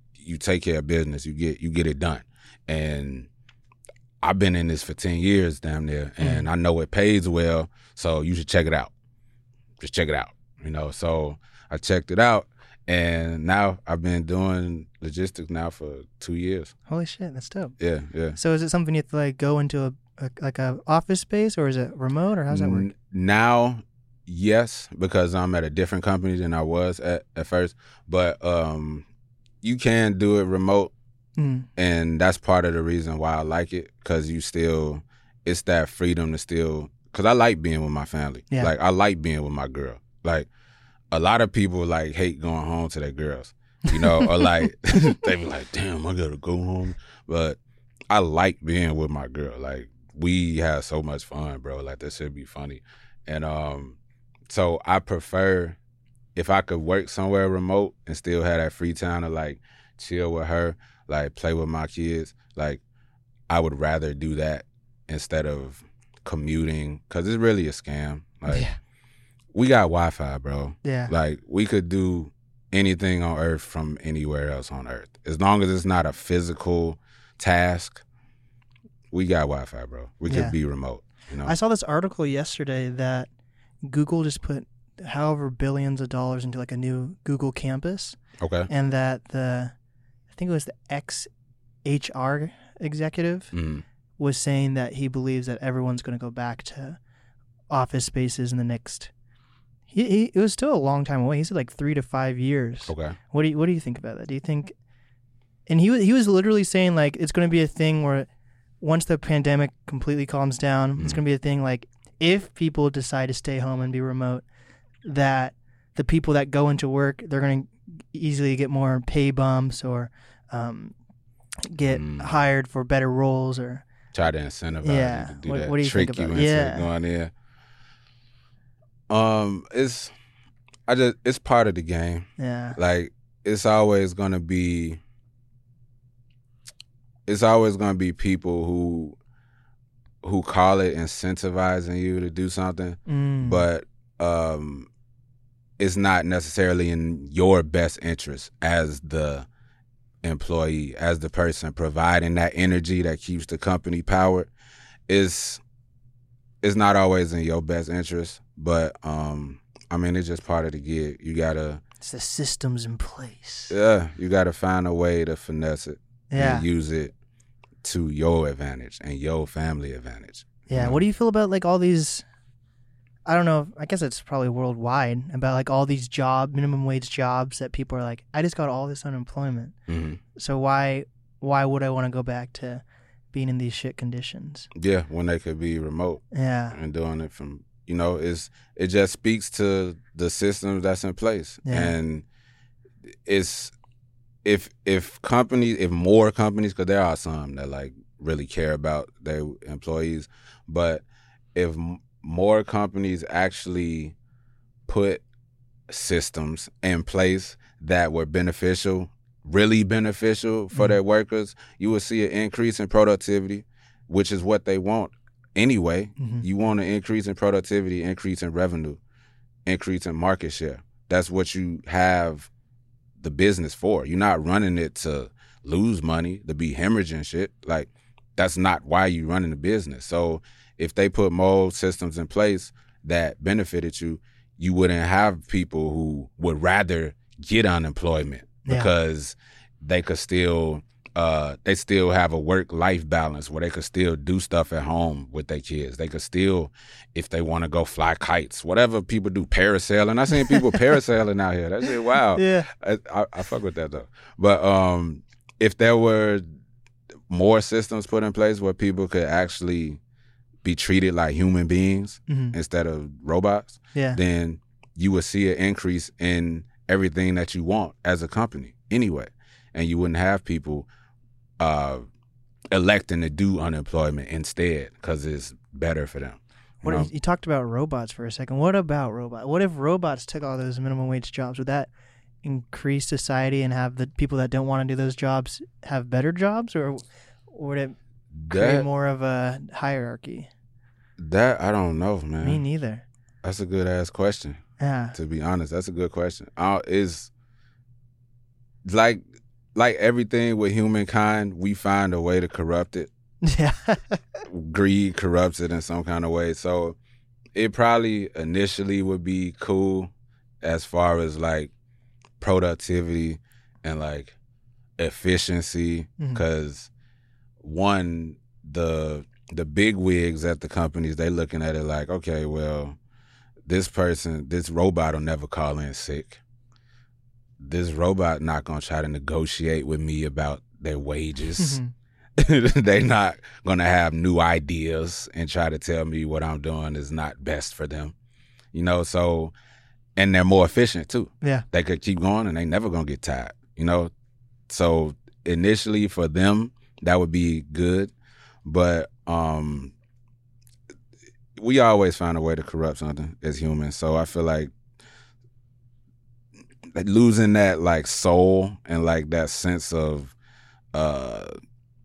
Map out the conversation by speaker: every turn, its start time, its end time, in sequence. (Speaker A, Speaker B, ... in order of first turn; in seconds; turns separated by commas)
Speaker A: 0.2-3.3, Speaker A: 4.2-8.9, Speaker B: 6.2-6.5, Speaker A: 9.8-16.7, Speaker B: 16.9-17.7, Speaker A: 17.8-18.4, Speaker B: 18.4-22.9, Speaker A: 22.5-29.1, Speaker A: 29.6-30.9, Speaker B: 31.4-31.7, Speaker A: 31.8-40.5, Speaker A: 41.1-47.6, Speaker B: 43.9-44.4, Speaker A: 48.1-54.0, Speaker A: 54.5-55.8, Speaker A: 56.3-62.8, Speaker A: 63.5-68.7, Speaker B: 68.5-68.8, Speaker A: 69.5-78.0, Speaker B: 70.8-71.1, Speaker A: 79.1-81.5, Speaker B: 80.3-80.5, Speaker B: 81.4-83.3, Speaker B: 83.8-89.7, Speaker A: 88.4-88.7, Speaker B: 90.3-91.3, Speaker B: 91.8-93.5, Speaker A: 93.5-93.8, Speaker B: 94.2-97.0, Speaker B: 97.7-99.1, Speaker B: 99.9-104.7, Speaker A: 102.9-103.2, Speaker B: 105.7-108.3, Speaker B: 108.8-114.4, Speaker B: 115.0-121.0, Speaker B: 121.7-123.8, Speaker A: 121.8-122.4, Speaker A: 124.1-127.3, Speaker B: 124.8-126.9, Speaker A: 129.1-130.1, Speaker A: 130.9-135.0, Speaker B: 132.4-132.8, Speaker A: 137.2-139.2, Speaker A: 140.2-144.9, Speaker B: 143.1-143.7, Speaker A: 145.8-149.5, Speaker A: 150.2-154.5, Speaker A: 155.1-155.6, Speaker A: 156.6-161.8, Speaker B: 162.0-163.7, Speaker A: 163.7-167.1, Speaker B: 166.3-166.7, Speaker A: 167.8-171.0, Speaker B: 170.7-172.2, Speaker B: 173.2-179.7, Speaker A: 179.9-180.2, Speaker B: 180.3-184.7, Speaker A: 184.8-192.2, Speaker B: 186.3-186.8, Speaker B: 191.6-191.9, Speaker A: 193.2-193.7, Speaker A: 194.4-204.1, Speaker A: 204.8-205.2, Speaker A: 205.9-219.0, Speaker B: 216.2-216.4, Speaker A: 219.7-222.5, Speaker A: 223.2-256.4, Speaker B: 238.7-238.9, Speaker B: 250.4-250.8, Speaker B: 252.3-252.7, Speaker A: 257.3-260.0, Speaker A: 260.6-270.9, Speaker B: 262.3-262.5, Speaker B: 263.9-264.2, Speaker A: 271.6-272.1, Speaker A: 272.7-277.1, Speaker B: 276.8-281.9, Speaker B: 282.4-287.9, Speaker A: 288.3-288.9, Speaker B: 288.5-290.5, Speaker A: 291.2-292.6, Speaker B: 292.4-293.0, Speaker A: 293.4-294.6, Speaker B: 294.8-295.1, Speaker A: 295.1-297.3, Speaker A: 298.8-299.2, Speaker A: 299.7-303.1, Speaker B: 303.4-304.4, Speaker A: 304.5-307.0, Speaker A: 307.5-310.1, Speaker A: 310.6-311.7, Speaker A: 312.4-314.3, Speaker A: 315.0-316.9, Speaker A: 317.6-323.0, Speaker A: 323.6-326.4, Speaker A: 327.6-331.8, Speaker B: 331.6-331.9, Speaker A: 332.4-338.1, Speaker A: 338.7-339.5, Speaker A: 340.1-344.1, Speaker A: 344.7-348.1, Speaker A: 348.6-349.9, Speaker A: 351.6-354.7, Speaker A: 356.9-360.3, Speaker A: 360.9-361.5